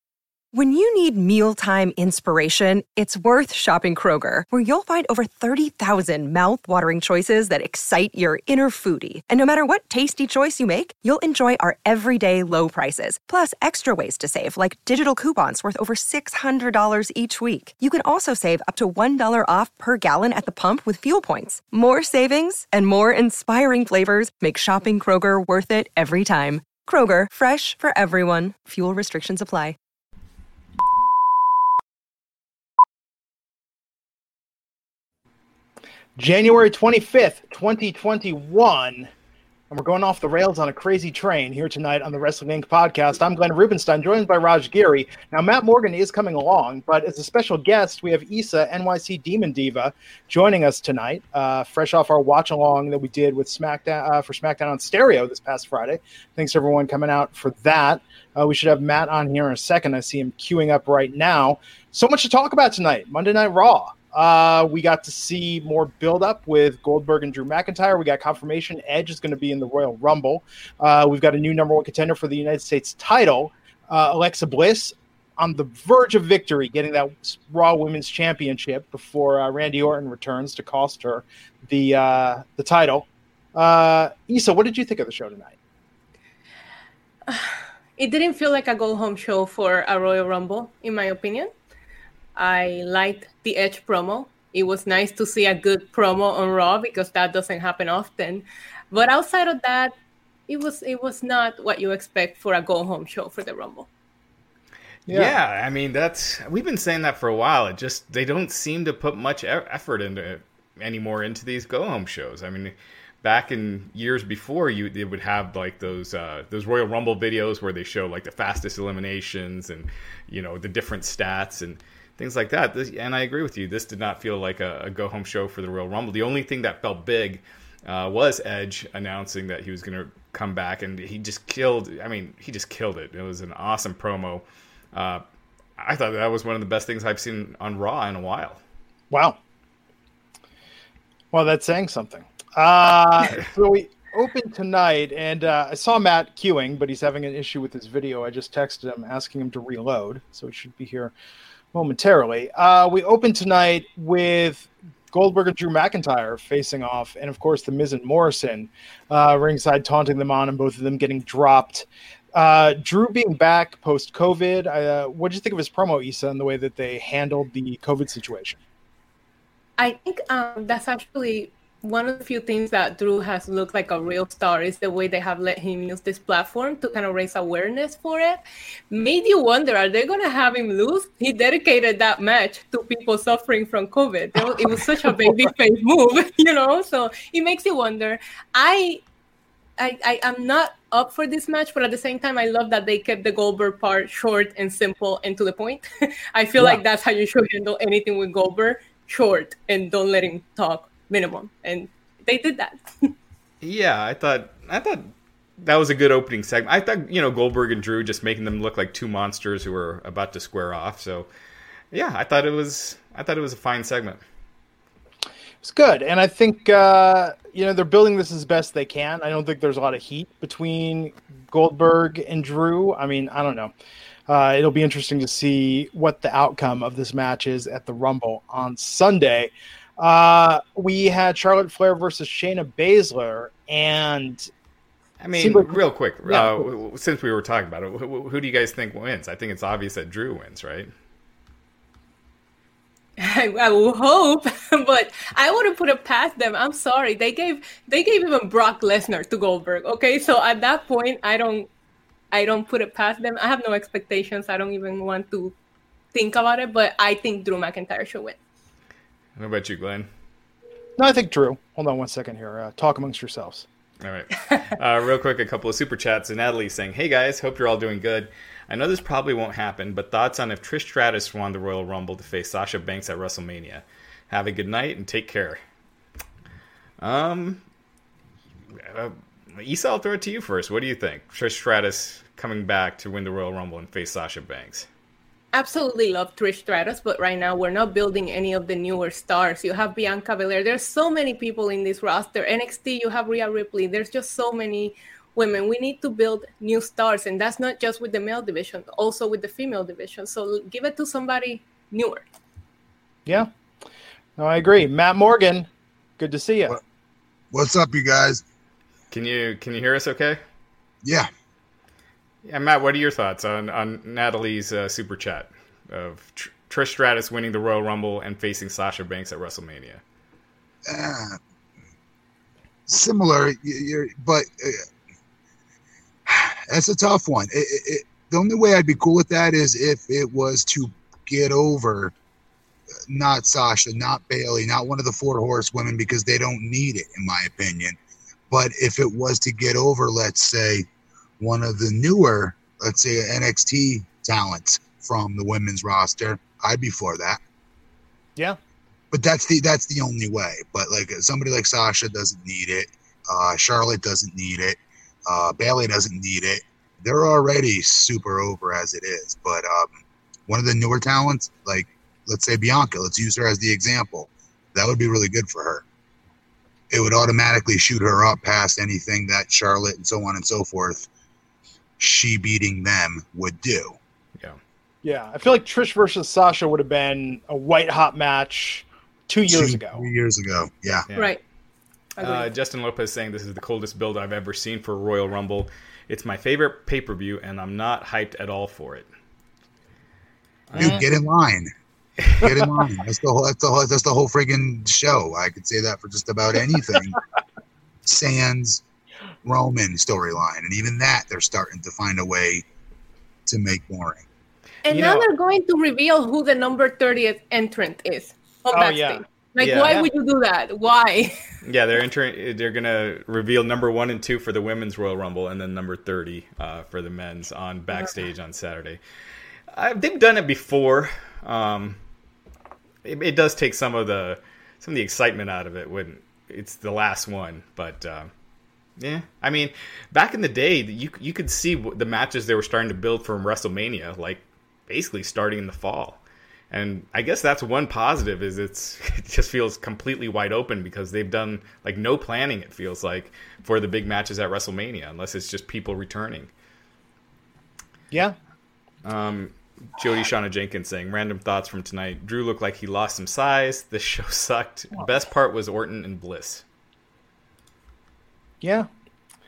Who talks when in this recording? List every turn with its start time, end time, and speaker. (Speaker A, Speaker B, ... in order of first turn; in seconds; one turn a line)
Speaker A: 0.5-29.8
Speaker B: 36.2-39.1
Speaker B: 39.7-85.5
Speaker C: 87.3-91.5
Speaker C: 92.4-99.9
Speaker C: 100.5-103.9
Speaker B: 105.1-105.3
Speaker D: 105.1-135.2
Speaker D: 135.8-138.6
Speaker B: 139.1-139.4
Speaker B: 141.3-151.1
Speaker B: 151.7-168.6
Speaker C: 169.8-189.0
Speaker C: 189.8-203.1
Speaker D: 203.6-211.3
Speaker D: 211.9-214.2
Speaker B: 215.6-223.7
Speaker B: 224.3-234.5
Speaker D: 235.2-240.9
Speaker B: 235.4-236.7
Speaker C: 243.2-251.7
Speaker C: 252.3-255.6
Speaker C: 256.1-258.4
Speaker D: 259.4-260.1
Speaker B: 261.0-263.7
Speaker D: 264.0-275.6
Speaker D: 277.0-277.6
Speaker D: 278.8-284.9
Speaker C: 285.5-302.2
Speaker B: 304.4-306.8
Speaker E: 307.5-308.4
Speaker D: 309.1-310.4
Speaker E: 311.0-311.3
Speaker D: 312.4-320.0
Speaker E: 320.9-321.4
Speaker E: 322.9-324.9
Speaker E: 326.3-332.1
Speaker E: 333.1-338.0
Speaker E: 338.5-340.9
Speaker E: 341.4-347.4
Speaker E: 349.1-360.0
Speaker E: 360.5-365.8
Speaker E: 366.9-371.1
Speaker E: 372.0-374.0
Speaker B: 375.0-380.0
Speaker E: 379.5-381.1
Speaker D: 381.1-381.4
Speaker C: 381.1-381.4
Speaker C: 382.2-382.5
Speaker D: 382.2-389.1
Speaker D: 390.7-391.0
Speaker E: 390.8-391.7
Speaker B: 390.8-391.0
Speaker E: 392.4-397.2
Speaker E: 398.1-398.8
Speaker E: 399.4-402.6
Speaker E: 403.5-404.3
Speaker C: 404.9-411.4
Speaker D: 404.9-405.3
Speaker B: 408.7-409.2
Speaker D: 409.6-410.1
Speaker D: 411.6-419.0
Speaker D: 419.7-422.0
Speaker D: 423.1-428.3
Speaker D: 429.0-436.2
Speaker D: 436.7-446.5
Speaker D: 449.0-456.6
Speaker B: 458.6-458.9